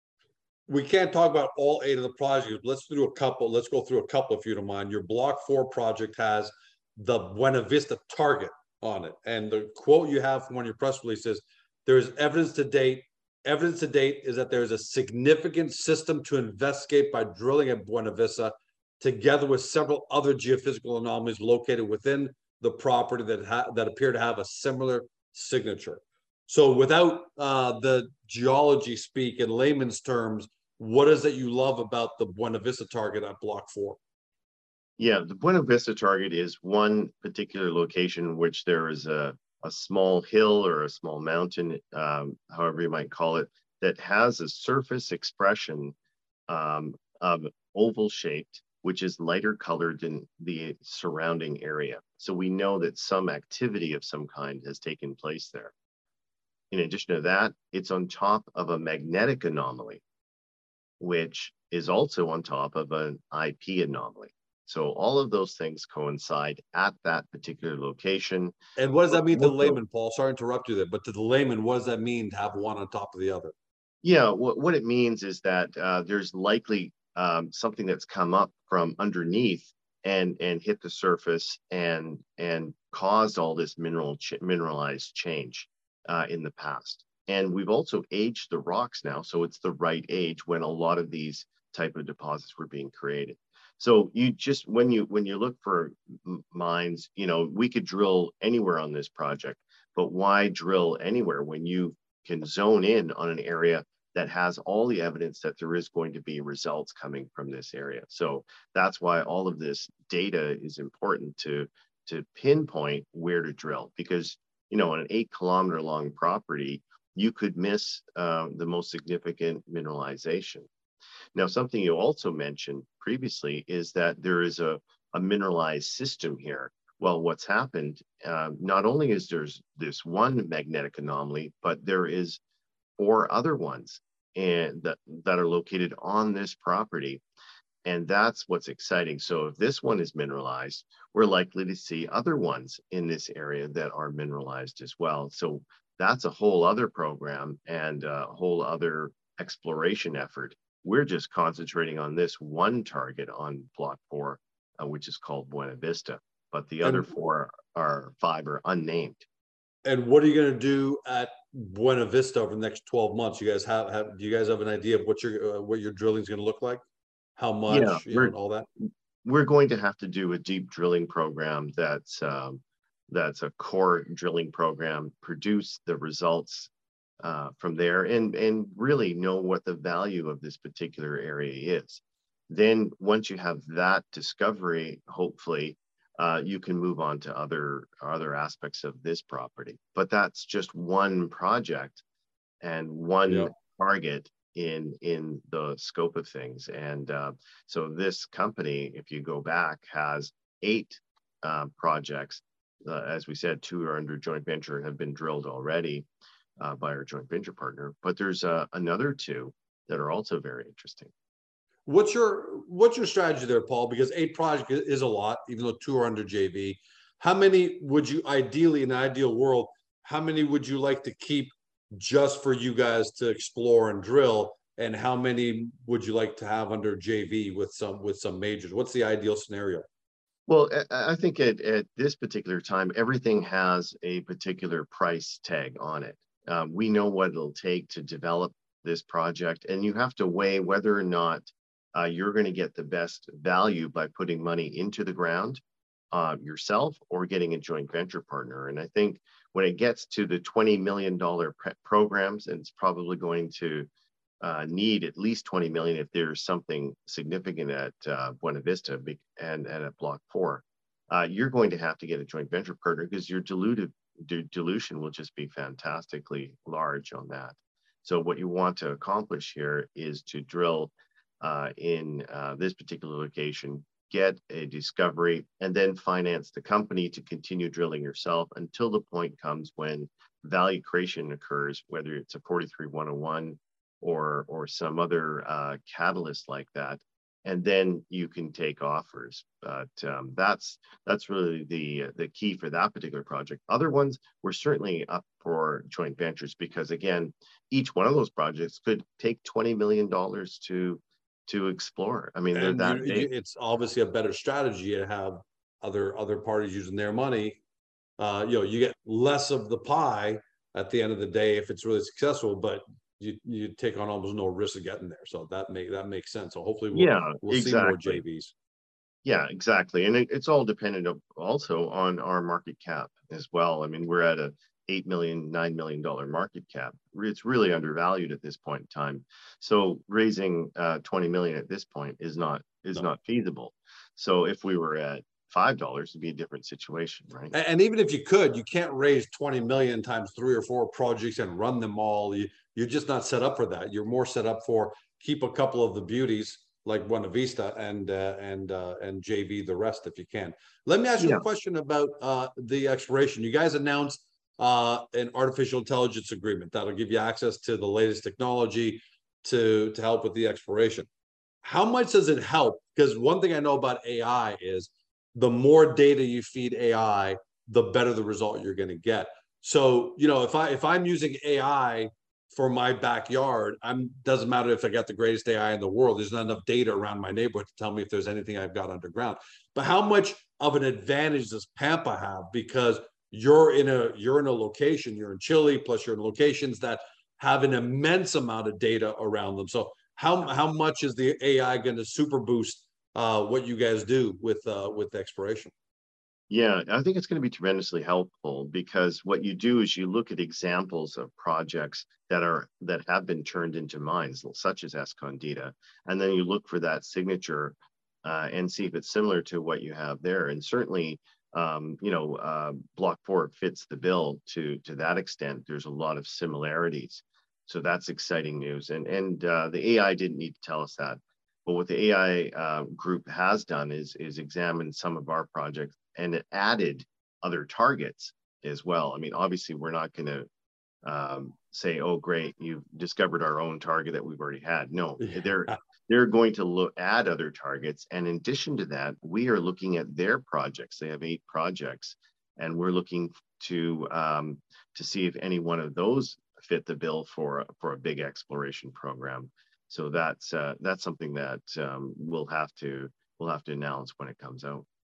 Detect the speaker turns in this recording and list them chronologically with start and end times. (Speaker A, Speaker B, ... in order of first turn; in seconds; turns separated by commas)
Speaker A: 0.7-34.0, Speaker B: 35.0-45.9, Speaker B: 46.5-55.7, Speaker B: 56.7-60.0, Speaker B: 61.0-68.5, Speaker A: 68.8-73.5, Speaker B: 69.1-69.8, Speaker B: 74.0-120.7, Speaker B: 121.3-132.4, Speaker B: 133.0-137.2, Speaker B: 137.8-159.2, Speaker A: 156.8-157.1, Speaker A: 159.8-166.8, Speaker A: 167.3-168.7, Speaker B: 167.7-168.3, Speaker B: 169.2-176.7, Speaker B: 177.2-192.0, Speaker B: 192.6-206.1, Speaker A: 193.3-193.5, Speaker B: 206.6-211.1, Speaker A: 211.8-229.9, Speaker B: 230.5-245.6, Speaker B: 246.1-253.9, Speaker B: 254.4-303.3, Speaker A: 302.5-307.6, Speaker A: 308.2-318.5, Speaker B: 316.9-318.2, Speaker B: 319.2-337.5, Speaker A: 337.5-361.1, Speaker B: 351.2-351.4, Speaker A: 361.6-395.7, Speaker B: 396.5-430.5, Speaker B: 431.0-454.8, Speaker A: 435.2-435.8